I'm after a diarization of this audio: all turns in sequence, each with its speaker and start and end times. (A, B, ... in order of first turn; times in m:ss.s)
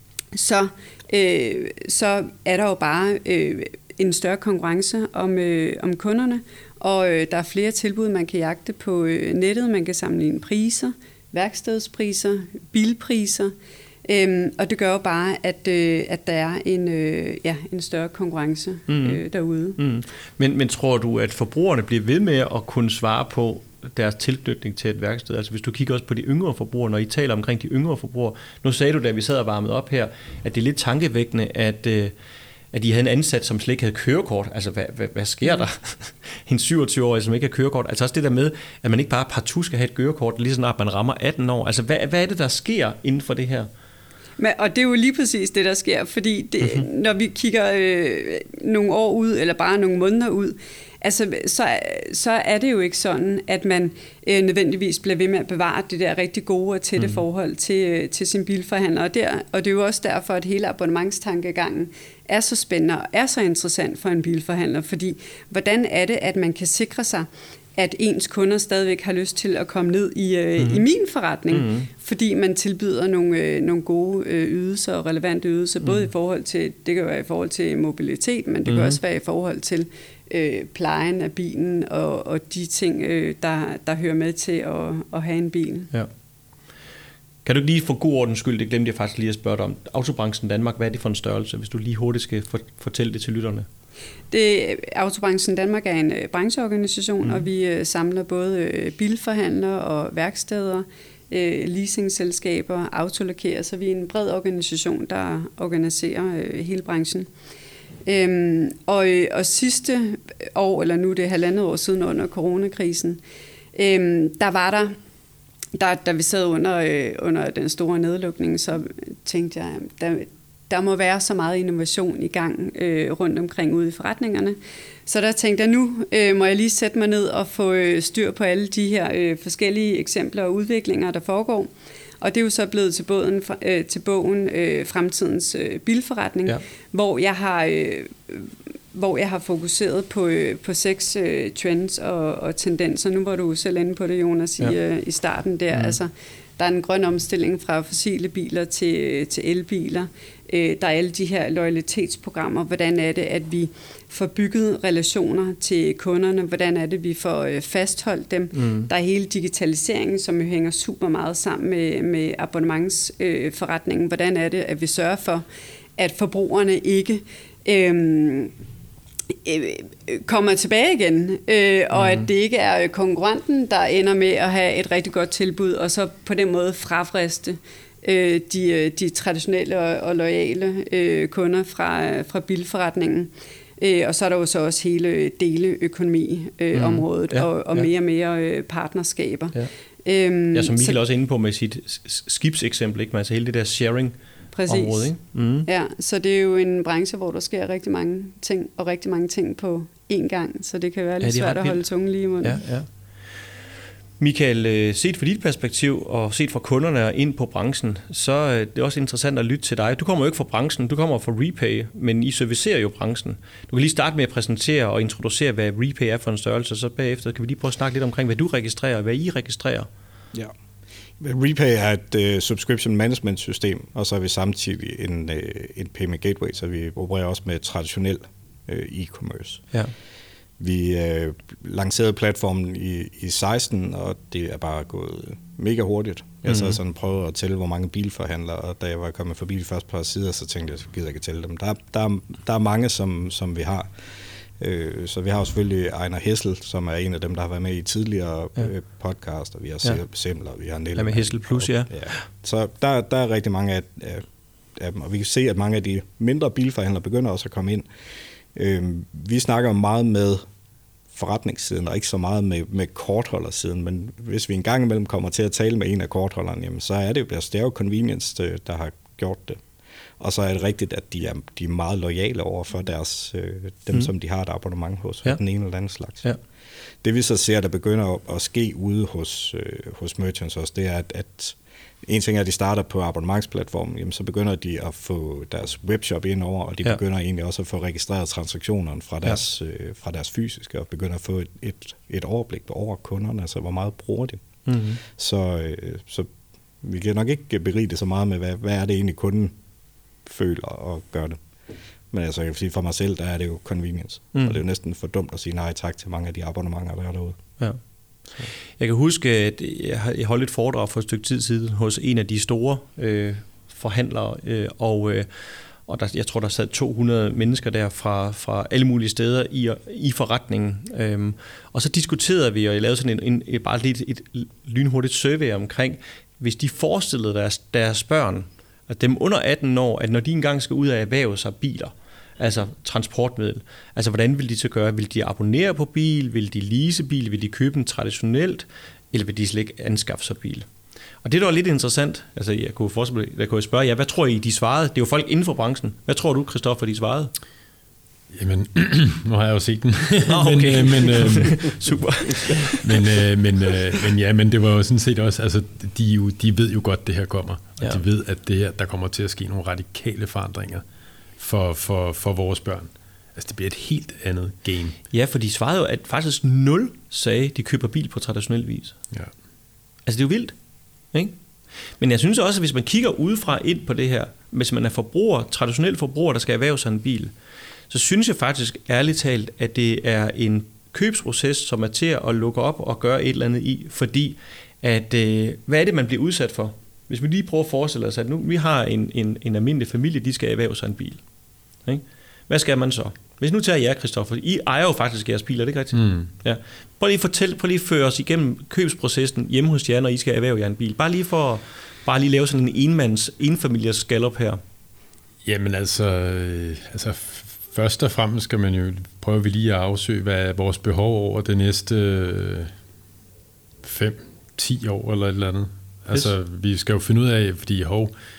0:00.3-0:13.5 A
0:14.0-0:19.8 A
0:18.9-0:19.2 B
0:19.8-0:32.1 B
0:32.7-0:43.7 B
0:44.4-1:25.9 A
0:46.6-0:46.9 B
0:57.0-0:57.2 B
1:10.6-1:10.8 B
1:11.5-1:11.9 B
1:15.8-1:16.1 B
1:18.6-1:19.0 B
1:27.4-1:33.7 B
1:34.3-1:47.3 A
1:48.0-1:53.2 A
1:53.7-1:55.0 A
1:55.8-2:45.4 A
2:38.5-2:38.9 B
2:46.0-2:48.5 A
2:49.3-3:11.0 A
2:51.9-2:52.3 B
3:06.7-3:07.9 B
3:10.5-3:14.2 B
3:14.5-3:22.6 A
3:14.7-3:15.7 B
3:21.2-3:21.8 B
3:22.4-3:22.9 B
3:24.2-3:39.9 B
3:41.2-3:49.6 C
3:50.6-4:03.9 C
3:56.4-3:56.8 B
4:04.6-4:17.9 C
4:11.0-4:12.2 B
4:18.5-4:20.4 C
4:21.1-4:29.6 C
4:30.2-4:36.3 C
4:37.0-4:54.4 C
4:54.6-4:55.0 B
4:55.0-4:56.3 C
4:56.8-4:59.5 C
5:00.2-5:01.4 C
5:02.1-5:07.4 C
5:08.4-5:40.7 B
5:41.2-5:47.3 B
5:48.3-6:00.8 D
5:50.2-5:53.1 B
6:01.4-6:05.0 D
6:05.1-6:09.0 B
6:10.0-6:10.6 B
6:11.1-6:11.4 B
6:12.0-6:17.3 B
6:17.9-6:31.2 B
6:31.8-6:44.6 B
6:36.0-6:36.3 D
6:45.4-6:52.7 D
6:53.8-6:58.1 D